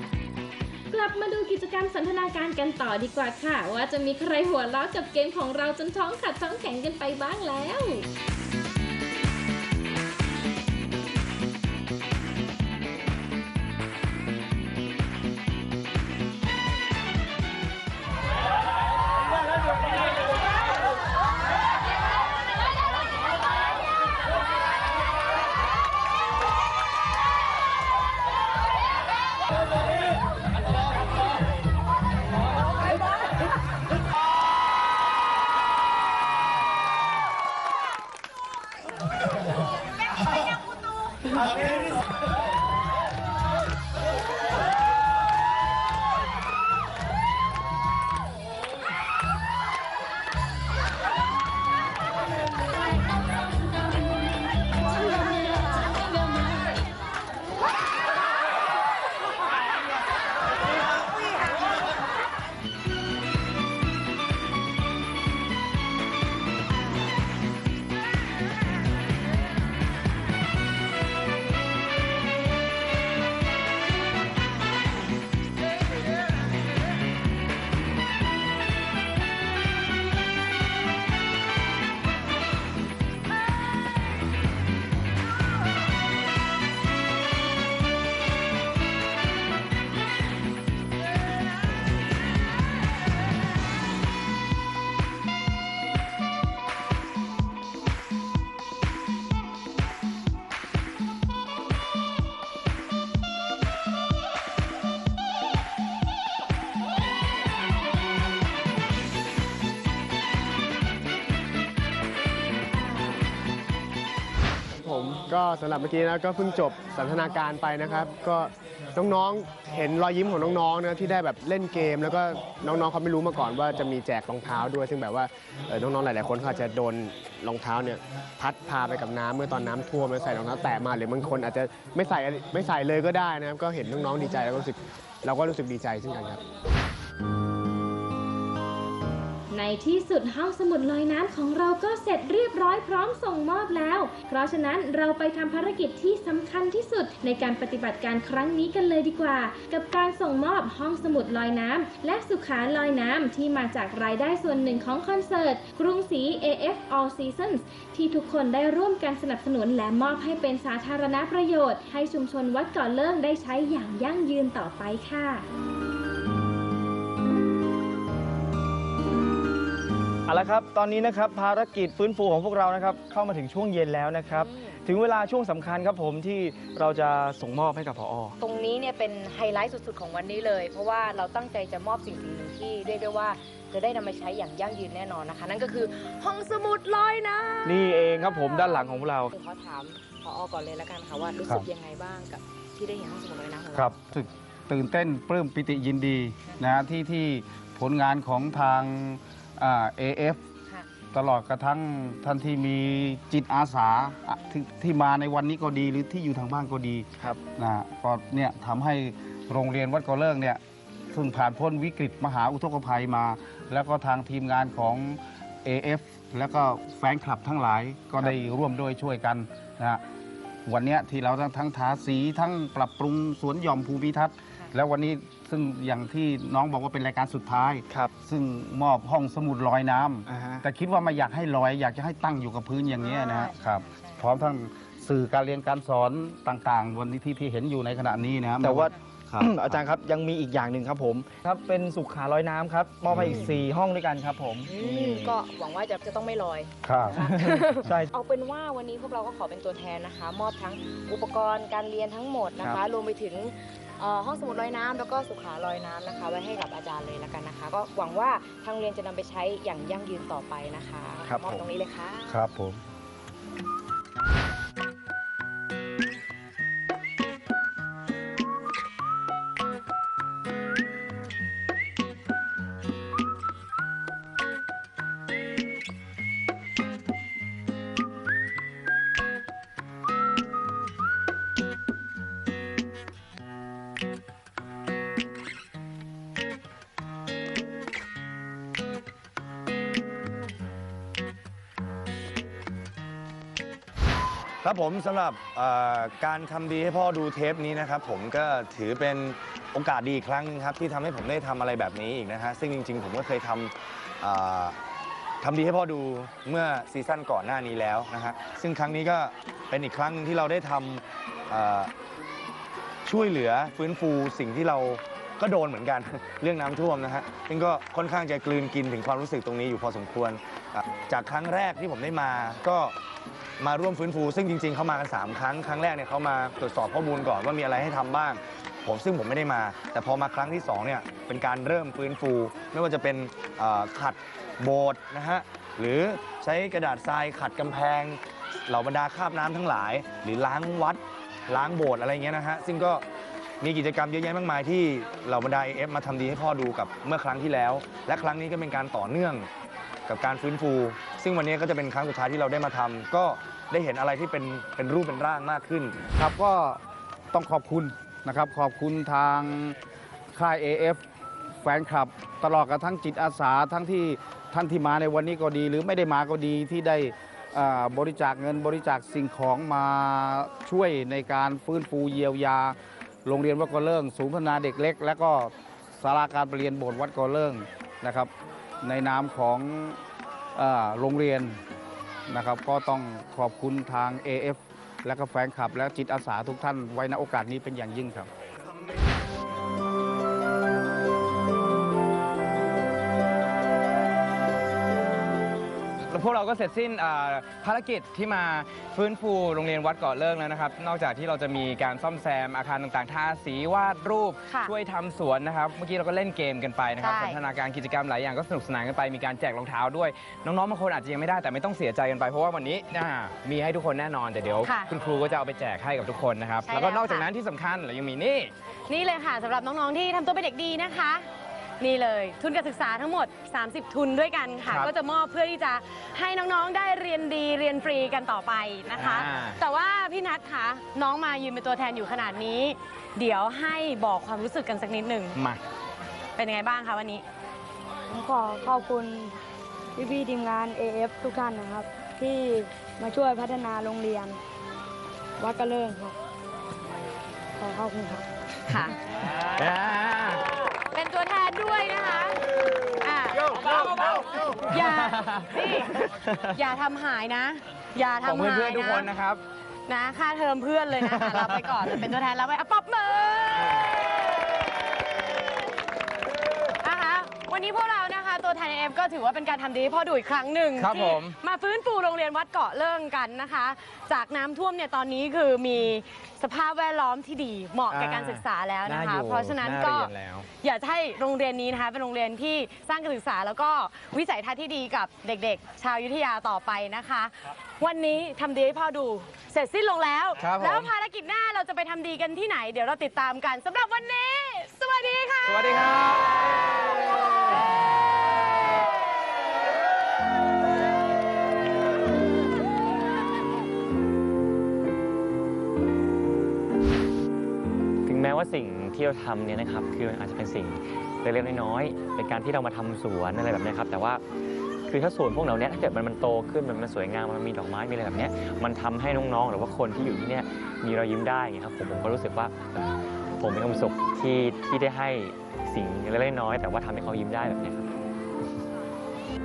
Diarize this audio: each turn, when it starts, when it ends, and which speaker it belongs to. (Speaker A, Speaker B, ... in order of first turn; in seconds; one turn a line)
Speaker A: 0.9-8.1
Speaker B: 114.8-118.4
Speaker C: 117.9-118.4
Speaker B: 119.0-121.1
Speaker C: 119.1-134.8
Speaker B: 123.5-124.0
Speaker B: 128.9-129.1
Speaker B: 130.0-131.0
Speaker B: 131.9-133.7
Speaker B: 135.2-135.5
Speaker C: 135.4-136.3
Speaker A: 139.5-165.4
Speaker D: 170.3-178.4
Speaker B: 174.4-174.8
Speaker B: 178.4-193.9
Speaker D: 187.6-189.3
Speaker E: 193.7-200.4
Speaker E: 201.1-210.6
Speaker E: 211.1-220.0
Speaker E: 220.7-239.8
Speaker D: 230.3-230.6
Speaker B: 233.0-233.5
Speaker D: 238.6-245.4
Speaker E: 243.1-243.5
Speaker B: 243.2-243.5
Speaker B: 244.7-262.4
Speaker E: 246.8-247.2
Speaker D: 247.2-248.1
Speaker D: 261.2-261.7
Speaker E: 262.3-262.8
Speaker F: 294.6-304.8
Speaker F: 305.4-311.9
Speaker F: 313.0-322.9
Speaker F: 323.6-343.1
Speaker F: 343.6-349.5
Speaker F: 350.1-356.0
Speaker E: 356.2-356.8
Speaker E: 357.3-359.8
Speaker E: 360.3-361.0
Speaker E: 361.6-378.3
Speaker E: 378.8-380.0
Speaker E: 380.6-381.6
Speaker E: 382.3-388.3
Speaker G: 396.1-418.5
Speaker H: 404.5-404.7
Speaker H: 407.0-407.4
Speaker H: 414.6-414.9
Speaker H: 416.6-417.3
Speaker H: 418.9-421.3
Speaker H: 421.8-435.4
Speaker G: 429.0-429.6
Speaker G: 435.4-435.6
Speaker H: 436.4-437.2
Speaker I: 438.1-439.4
Speaker I: 439.9-444.4
Speaker I: 445.4-446.1
Speaker I: 447.6-448.2
Speaker H: 448.7-448.9
Speaker G: 449.5-450.4
Speaker H: 450.9-452.4
Speaker H: 453.0-456.0
Speaker H: 456.6-459.1
Speaker G: 458.2-459.4
Speaker H: 459.9-463.9
Speaker H: 466.8-495.9
Speaker G: 470.8-471.3
Speaker G: 477.9-480.5
Speaker G: 490.4-490.9
Speaker G: 495.4-496.2
Speaker J: 508.1-514.2
Speaker J: 514.9-522.9
Speaker J: 523.4-527.9